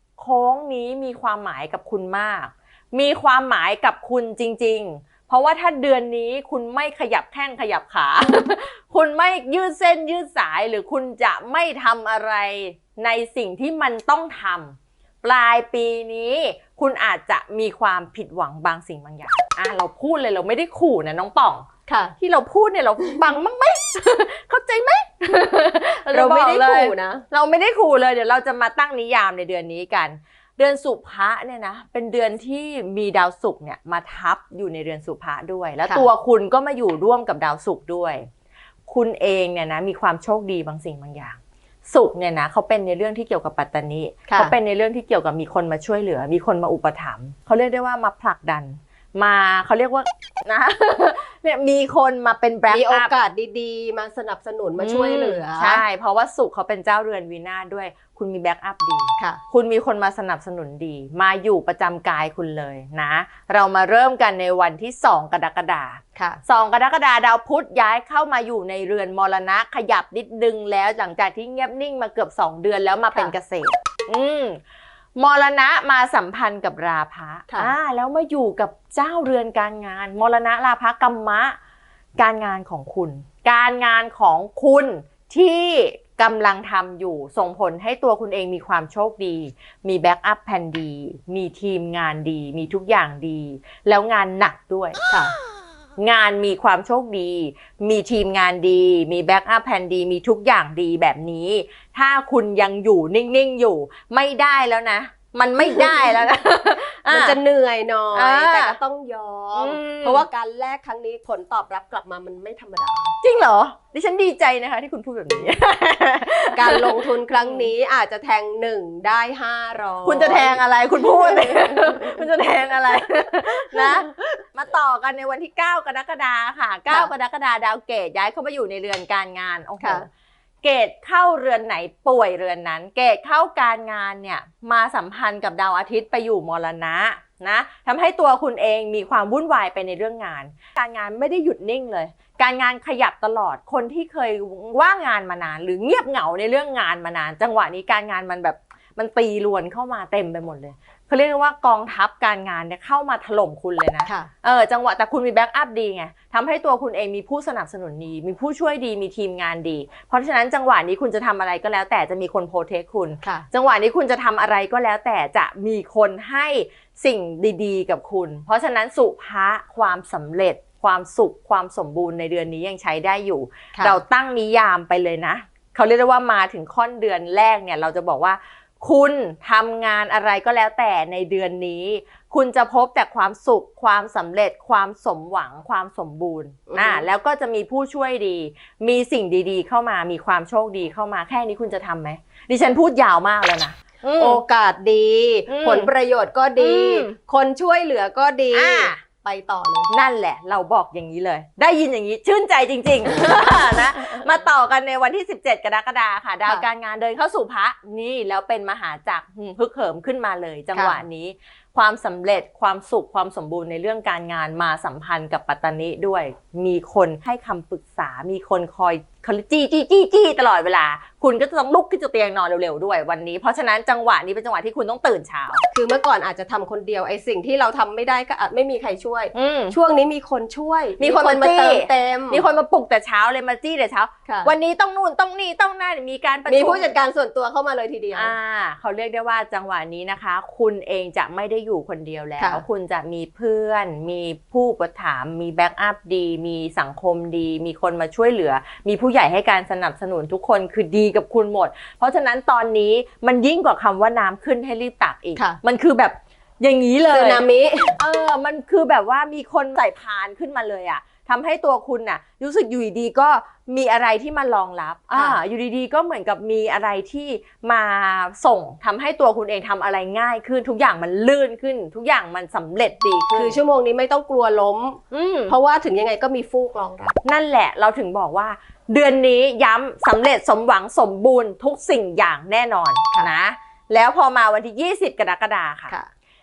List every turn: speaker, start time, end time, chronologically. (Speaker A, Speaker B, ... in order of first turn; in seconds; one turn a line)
Speaker A: 0.2-21.7
Speaker B: 21.9-22.1
Speaker A: 22.2-38.3
Speaker B: 26.1-27.3
Speaker A: 38.9-53.1
Speaker B: 44.3-44.5
Speaker B: 52.7-55.8
Speaker A: 54.8-74.6
Speaker B: 66.2-66.4
Speaker A: 75.2-81.6
Speaker A: 82.2-95.0
Speaker A: 96.0-107.4
Speaker B: 105.6-106.1
Speaker B: 107.1-113.1
Speaker A: 108.1-108.8
Speaker A: 109.5-110.2
Speaker A: 113.2-117.7
Speaker B: 116.5-122.2
Speaker A: 120.0-130.1
Speaker B: 129.8-130.1
Speaker A: 130.6-194.4
Speaker B: 186.7-187.0
Speaker B: 194.2-199.9
Speaker A: 195.5-195.9
Speaker A: 196.6-197.2
Speaker A: 198.5-199.0
Speaker A: 199.9-225.6
Speaker B: 210.7-211.0
Speaker B: 225.7-232.4
Speaker A: 229.3-229.8
Speaker A: 231.0-236.9
Speaker B: 234.3-234.5
Speaker B: 236.5-238.3
Speaker A: 238.1-257.4
Speaker B: 242.4-242.7
Speaker B: 257.1-258.0
Speaker A: 258.0-273.6
Speaker B: 265.1-265.4
Speaker B: 273.4-277.2
Speaker A: 275.1-275.6
Speaker A: 277.2-285.9